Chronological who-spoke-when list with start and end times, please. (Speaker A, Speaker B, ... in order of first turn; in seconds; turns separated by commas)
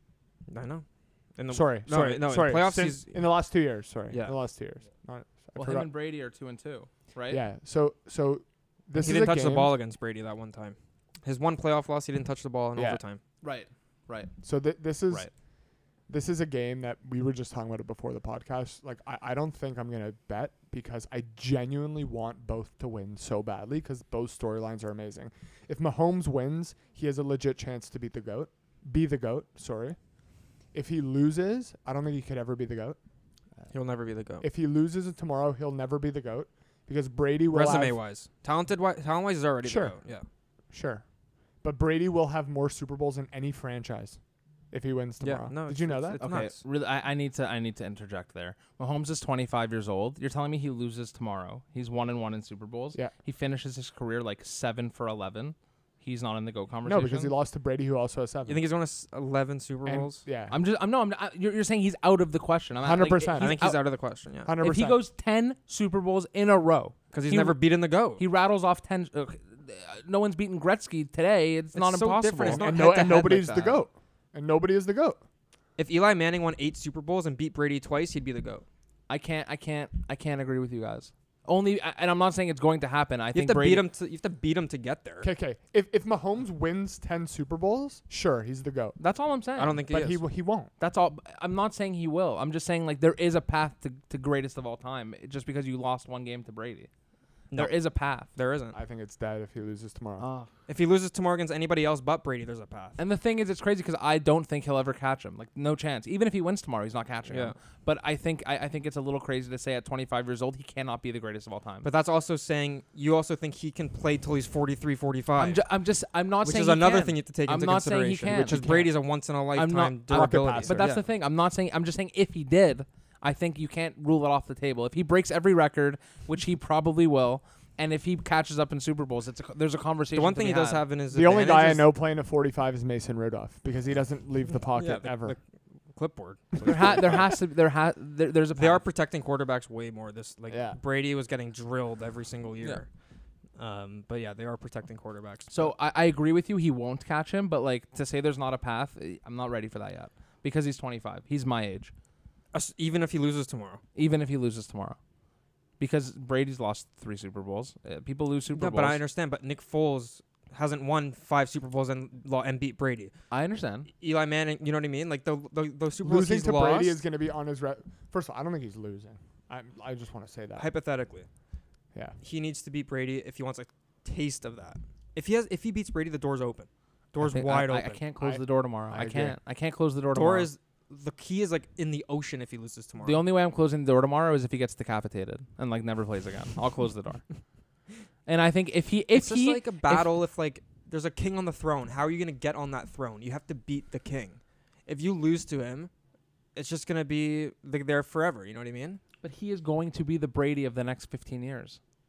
Speaker A: 0.5-3.3, Speaker B: 1.5-5.9, Speaker A: 4.1-4.4, Speaker C: 5.5-7.4, Speaker B: 7.3-9.7, Speaker A: 9.0-13.2, Speaker B: 12.7-13.0, Speaker C: 13.4-14.3, Speaker B: 14.4-15.3, Speaker B: 16.1-30.0, Speaker B: 30.7-33.0, Speaker A: 33.7-34.5, Speaker B: 34.4-38.0, Speaker A: 37.5-40.2, Speaker B: 39.6-39.9, Speaker B: 40.7-41.0, Speaker B: 41.6-44.2, Speaker B: 44.7-46.2, Speaker A: 45.2-46.6, Speaker C: 46.2-57.3, Speaker B: 56.8-58.6, Speaker A: 58.5-60.2, Speaker B: 59.8-60.5, Speaker C: 60.5-63.8, Speaker B: 62.8-63.6, Speaker A: 63.4-64.5, Speaker B: 64.4-65.0, Speaker C: 64.6-67.6, Speaker A: 67.1-68.2, Speaker C: 68.2-72.7, Speaker A: 71.7-73.8, Speaker B: 72.5-75.2, Speaker A: 75.8-78.6, Speaker C: 79.1-83.8, Speaker A: 83.3-85.3, Speaker B: 85.2-89.0, Speaker C: 89.0-89.8, Speaker A: 89.6-90.2, Speaker B: 89.9-90.7, Speaker C: 90.8-96.9, Speaker A: 97.5-98.8, Speaker C: 97.5-98.3, Speaker B: 98.7-100.2, Speaker C: 100.2-100.5, Speaker A: 100.7-103.0, Speaker C: 103.0-111.9, Speaker A: 107.3-107.5, Speaker A: 111.8-115.6, Speaker C: 115.4-118.9, Speaker A: 116.4-121.0, Speaker C: 119.5-130.8, Speaker B: 120.1-120.9, Speaker A: 130.1-131.9, Speaker B: 131.1-135.4, Speaker A: 134.7-135.4, Speaker A: 135.9-137.3, Speaker C: 136.6-138.8, Speaker A: 138.5-142.9, Speaker B: 140.5-140.8, Speaker A: 143.6-145.7, Speaker C: 145.5-151.9, Speaker A: 152.5-153.8, Speaker C: 153.9-155.0, Speaker C: 155.8-159.0, Speaker A: 158.5-163.1, Speaker C: 163.3-163.9, Speaker A: 164.0-167.0, Speaker B: 166.0-170.7, Speaker A: 170.6-171.3, Speaker A: 172.2-178.0, Speaker C: 177.2-180.5, Speaker B: 178.2-179.4, Speaker A: 180.1-183.2, Speaker C: 183.0-187.2, Speaker C: 188.2-190.1, Speaker A: 189.1-195.9, Speaker A: 196.5-199.0, Speaker C: 199.2-201.8